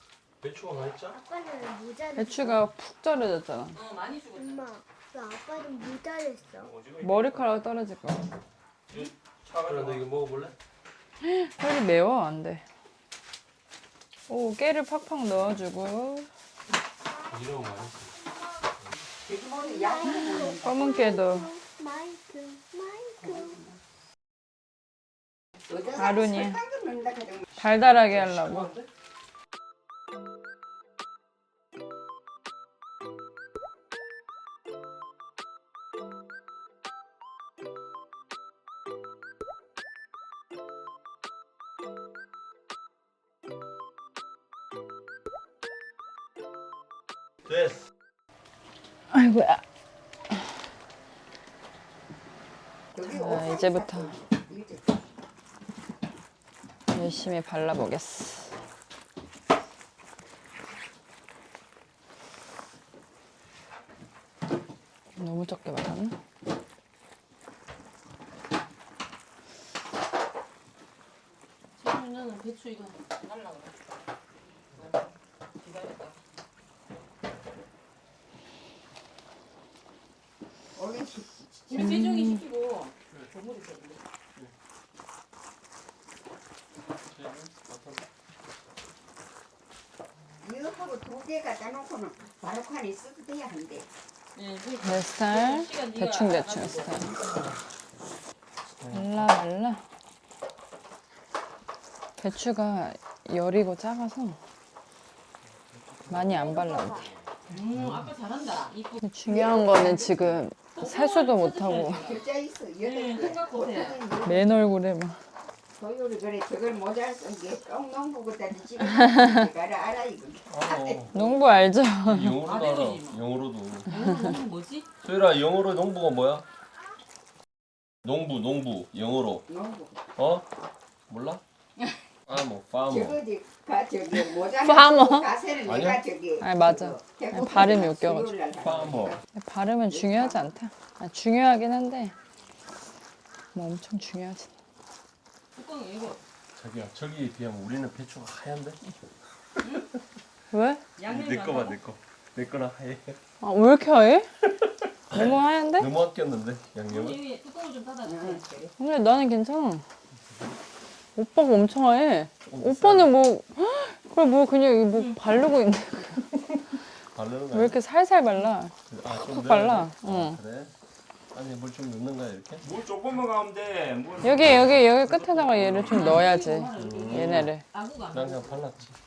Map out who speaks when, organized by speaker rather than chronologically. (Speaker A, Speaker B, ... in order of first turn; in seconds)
Speaker A: 0.4-1.1, 9.0-10.5, 17.3-18.1, 27.7-28.9, 47.5-47.8, 87.1-88.1, 98.8-99.3, 120.5-121.2, 122.0-124.1, 125.0-126.5, 128.0-129.4, 130.2-130.4, 131.1-131.4, 132.3-133.2, 135.6-136.0, 138.6-139.2, 146.6-148.8, 151.0-153.2, 155.1-157.3, 162.5-163.1, 167.2-167.8, 168.9-170.7, 171.3-172.8, 176.7-177.5, 178.1-179.0
Speaker B: 1.1-2.6, 4.3-6.8, 19.6-23.6, 106.2-107.1
Speaker C: 2.1-3.8, 7.0-8.3, 11.2-12.6, 14.3-16.3, 20.2-21.5, 25.9-26.6, 27.6-28.7, 49.1-49.6, 53.0-54.1, 56.9-58.5, 65.2-66.2, 81.8-82.4, 94.8-97.1, 98.9-99.8, 102.2-104.4, 106.1-107.1, 109.0-112.1, 114.2-115.2, 121.1-122.4, 134.5-135.3, 136.4-138.4, 139.3-142.1, 143.5-144.5, 150.5-150.8, 153.4-154.3, 155.1-155.9, 158.8-159.8, 161.2-166.4, 167.5-170.4, 174.2-177.6
Speaker D: 3.8-4.6, 71.8-73.7, 74.8-75.1, 75.6-76.2, 81.7-84.0, 94.4-97.4, 107.5-109.0, 110.8-112.3, 112.8-114.0, 122.4-123.2, 123.9-124.9, 145.6-146.2, 151.0-151.8, 156.9-158.4, 175.8-178.6
Speaker E: 6.7-7.0, 9.7-10.0, 172.7-176.1
Speaker F: 19.2-20.8, 23.2-23.5, 25.7-27.5, 52.9-55.0, 80.8-82.0, 90.4-93.9, 109.3-110.4, 111.9-114.6, 115.8-121.4, 129.5-130.1, 132.9-139.2, 139.9-140.5, 158.0-158.7